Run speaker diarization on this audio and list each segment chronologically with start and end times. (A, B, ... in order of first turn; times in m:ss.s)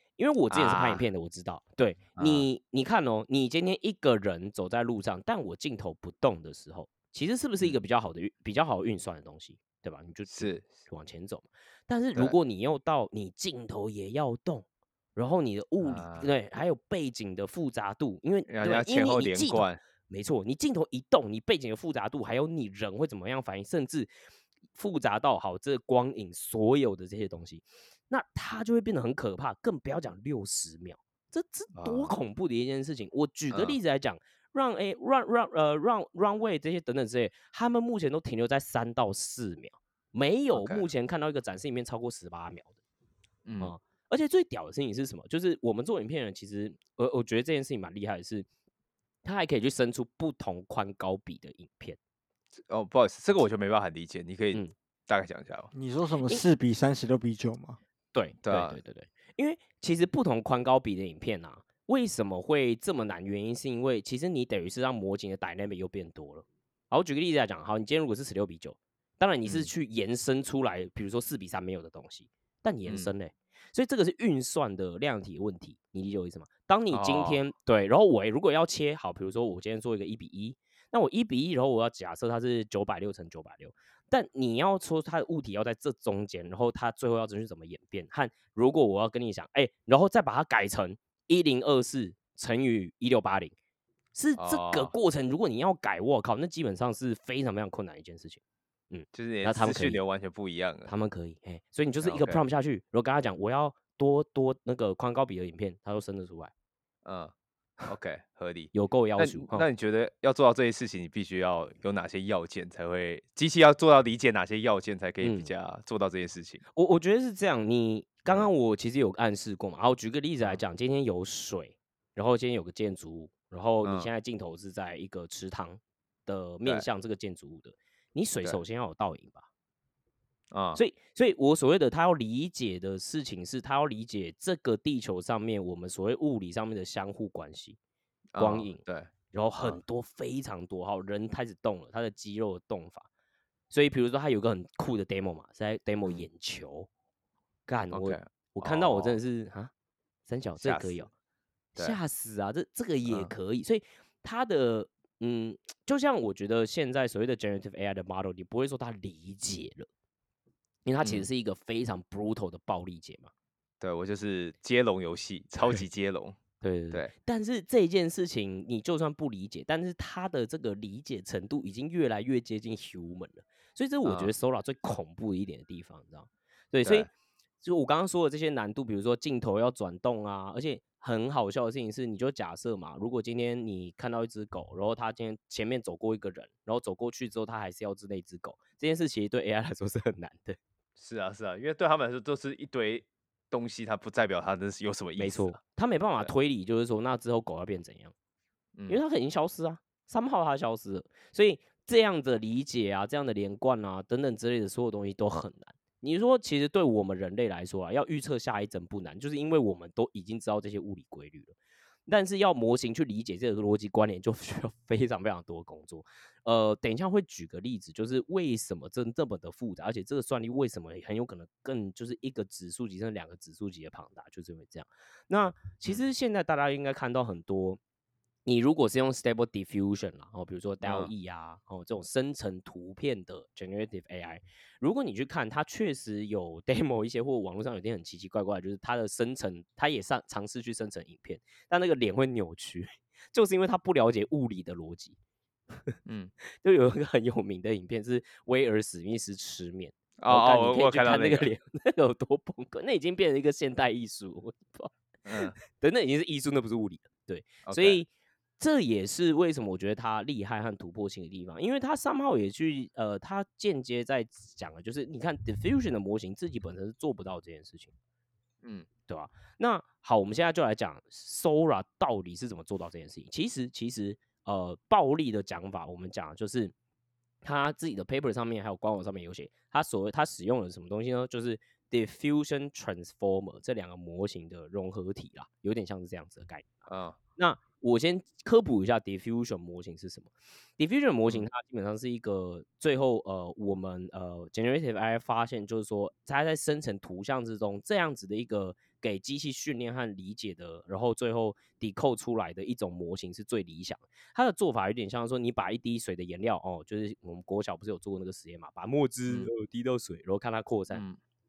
0:00.2-0:24.1 A
0:00.5-0:01.0 B
0:02.2-0:02.5 B
0:10.3-0:10.7 B
0:15.8-0:16.3 B
0:18.5-0:19.8 B
0:24.8-0:42.8 A
0:31.8-0:32.2 B
0:33.5-0:33.8 B
0:40.6-0:40.9 B
0:43.4-0:43.7 B
0:43.6-0:48.5 A
0:49.2-0:52.0 A
0:52.6-0:55.7 B
0:55.7-0:57.8 C
0:58.1-1:33.5 A
0:58.4-0:58.8 B
1:12.9-1:13.1 B
1:16.9-1:17.4 B
1:34.2-1:38.4 A
1:34.4-1:34.9 B
1:38.9-1:40.0 A
1:39.1-1:40.9 B
1:40.9-1:46.5 A
1:42.0-1:42.4 B
1:47.0-1:56.6 B
1:48.7-1:49.7 A
1:55.2-1:55.5 A
1:56.7-2:09.5 A
2:03.8-2:04.1 B
2:10.5-2:10.8 B
2:10.8-2:17.8 A
2:18.3-2:19.8 B
2:18.4-2:23.1 A
2:23.7-2:26.9 A
2:27.7-2:29.7 A
2:27.9-2:29.2 B
2:30.3-2:31.1 A
2:30.6-2:31.0 B
2:31.8-2:39.9 A
2:40.8-2:43.3 A
2:41.0-2:41.3 B
2:43.8-2:46.4 B
2:46.6-2:57.1 A
2:54.0-2:54.3 B
2:56.8-2:57.1 B
2:57.6-3:10.6 A
3:11.0-3:15.6 B
3:15.2-3:18.1 A
3:18.8-3:19.0 B
3:18.9-3:31.6 A
3:32.1-3:47.8 A
3:48.5-4:05.2 A
3:50.8-3:51.1 B
4:06.1-4:06.3 B
4:06.6-4:14.9 A
4:10.2-4:11.5 B
4:15.3-4:15.6 B
4:15.6-4:27.9 A
4:17.7-4:18.0 B
4:29.1-4:36.7 A
4:37.4-4:46.8 A
4:46.9-4:47.2 B
4:47.4-5:11.0 A
5:10.9-5:11.2 B